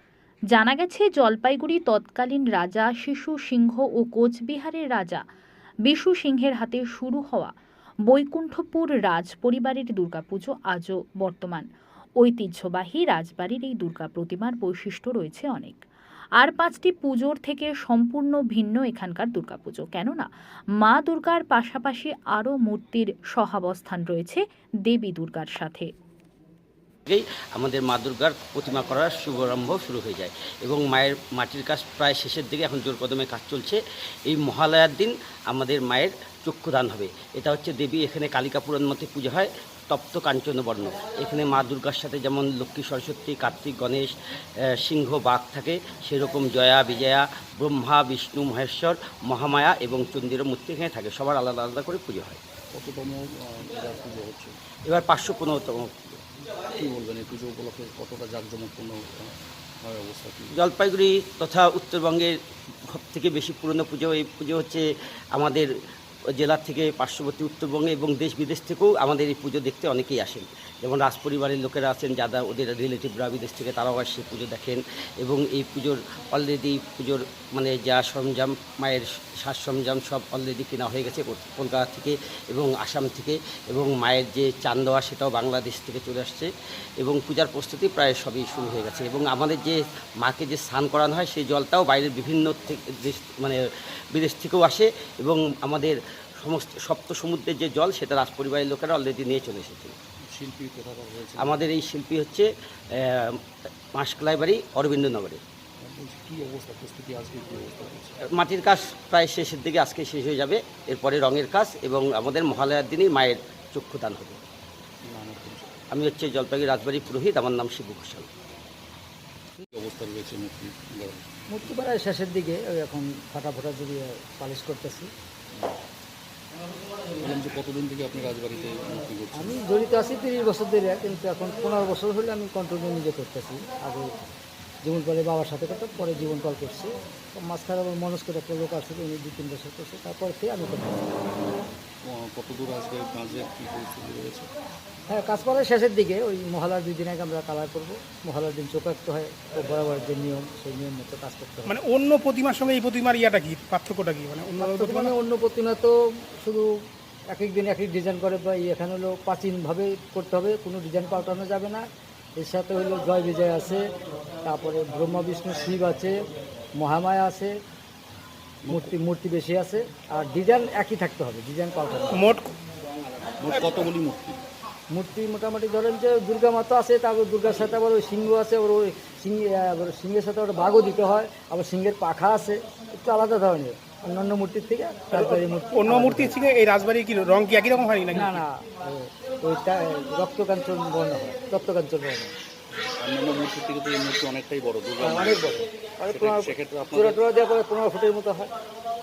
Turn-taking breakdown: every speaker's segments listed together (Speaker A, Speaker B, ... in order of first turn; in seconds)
Speaker A: 0.5-5.2, 5.9-7.5, 8.1-11.7, 12.2-15.8, 16.4-20.3, 20.8-25.9
Speaker B: 27.1-44.1, 44.7-52.4, 54.9-56.1, 60.5-62.4, 62.9-65.7, 66.3-86.5, 87.0-93.6, 94.1-100.0, 101.4-103.4, 104.0-105.4, 108.3-114.4, 115.9-118.3
Speaker C: 52.7-54.5, 56.6-60.6, 100.3-101.7, 105.8-108.2, 115.1-115.8, 119.6-121.7, 127.2-129.6, 142.0-144.5, 168.6-168.9, 172.9-174.4, 192.7-197.2
Speaker D: 121.5-125.1, 129.3-134.1, 134.8-141.1, 145.1-151.7, 154.6-156.7, 157.3-161.8, 162.4-163.8, 164.4-166.2, 166.8-167.6, 168.7-172.2, 174.9-186.4, 188.1-192.3, 195.0-198.5
Speaker E: 151.7-155.1, 172.1-172.5, 185.1-188.4